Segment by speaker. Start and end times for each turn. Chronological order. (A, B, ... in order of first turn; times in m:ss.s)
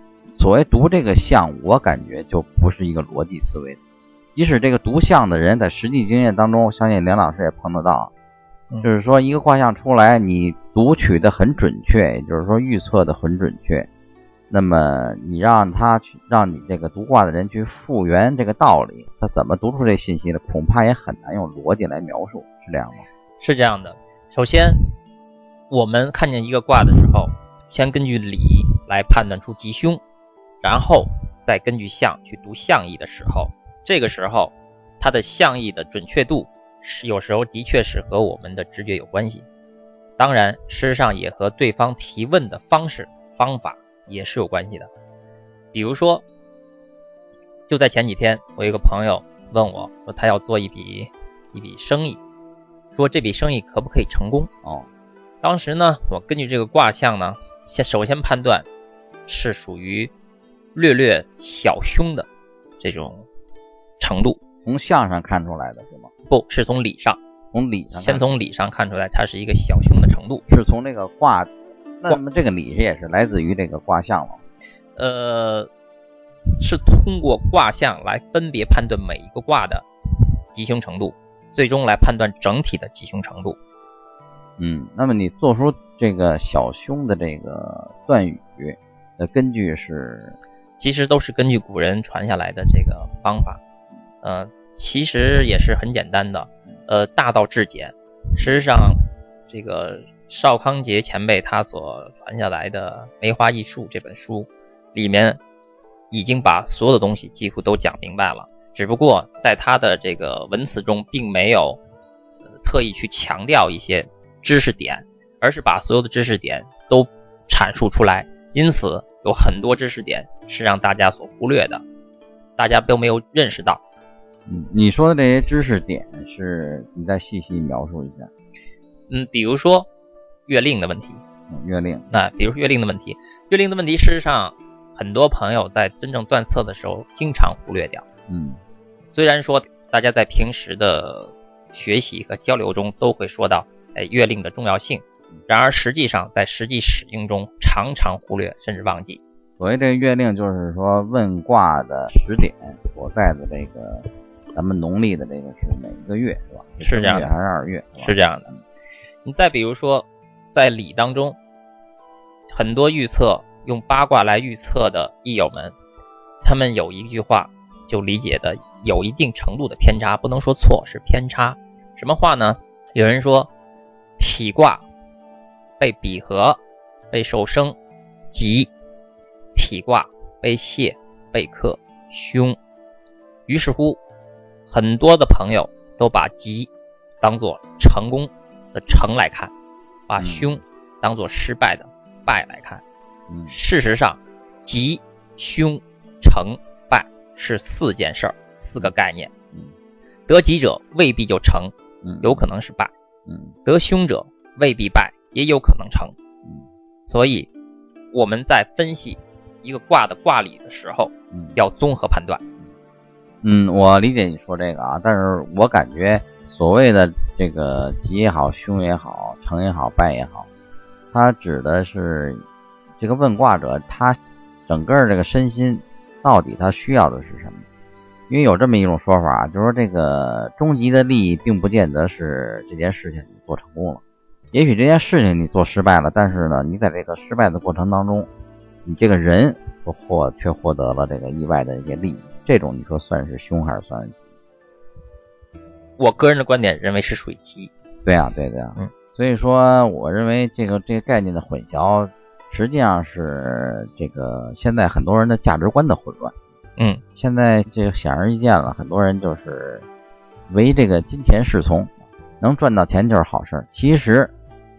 0:00.4-0:03.8 A
0:04.4-0:08.1 A
0:08.8-0:13.9 A
0:14.5-0:23.1 A
0:23.4-0:24.9 B
0:25.7-0:30.0 B
0:30.6-0:39.4 B
0:40.2-0:44.9 B
0:45.7-0:46.2 B
0:47.7-0:52.2 B
0:52.9-0:54.5 B
0:54.6-0:54.9 A
0:55.4-0:58.6 B
0:59.3-1:00.1 B
1:00.7-1:02.3 B
1:02.8-1:03.3 B
1:04.0-1:04.4 B
1:04.6-1:06.1 A
1:06.3-1:07.2 B
1:07.5-1:08.3 A
1:07.9-1:10.4 B
1:10.5-1:14.4 A
1:15.0-1:15.7 B
1:16.6-1:19.8 B
1:20.5-1:23.6 B
1:24.6-1:30.4 A
1:30.8-1:33.6 B
1:34.2-1:45.4 B
1:46.1-1:51.8 B
1:52.6-2:01.8 B
2:02.6-2:03.8 B
2:04.5-2:08.3 A
2:09.1-2:09.9 B
2:10.5-2:11.2 B
2:11.5-2:12.0 A
2:12.1-2:18.0 B
2:18.3-2:18.6 A
2:19.0-2:29.2 B
2:29.6-2:38.6 A
2:36.8-2:37.3 B
2:38.0-2:38.5 B
2:39.2-2:41.4 B
2:42.5-2:45.7 B
2:46.4-2:53.5 B
2:54.2-2:54.8 B
2:55.8-2:56.6 B
2:57.1-2:57.8 B
2:58.3-2:58.7 B
2:59.5-3:02.6 B
3:03.5-3:04.0 B
3:04.7-3:06.7 B
3:07.2-3:09.5 B
3:10.1-3:12.8 B
3:10.2-3:10.6 A
3:13.3-3:13.6 A
3:13.5-3:19.3 B
3:20.3-3:22.9 B
3:22.0-3:22.5 A
3:23.3-3:23.5 A
3:23.6-3:26.1 B
3:27.1-3:27.5 B
3:28.1-3:32.4 B
3:31.3-3:31.6 A
3:33.4-3:40.5 A
3:41.1-3:42.4 A
3:43.0-3:47.6 A
3:48.3-3:54.0 A
3:54.5-3:58.3 A
3:58.8-4:04.2 A
4:06.0-4:07.7 B
4:08.0-4:16.3 A
4:16.8-4:17.0 B
4:17.1-4:19.8 A
4:20.5-4:24.3 A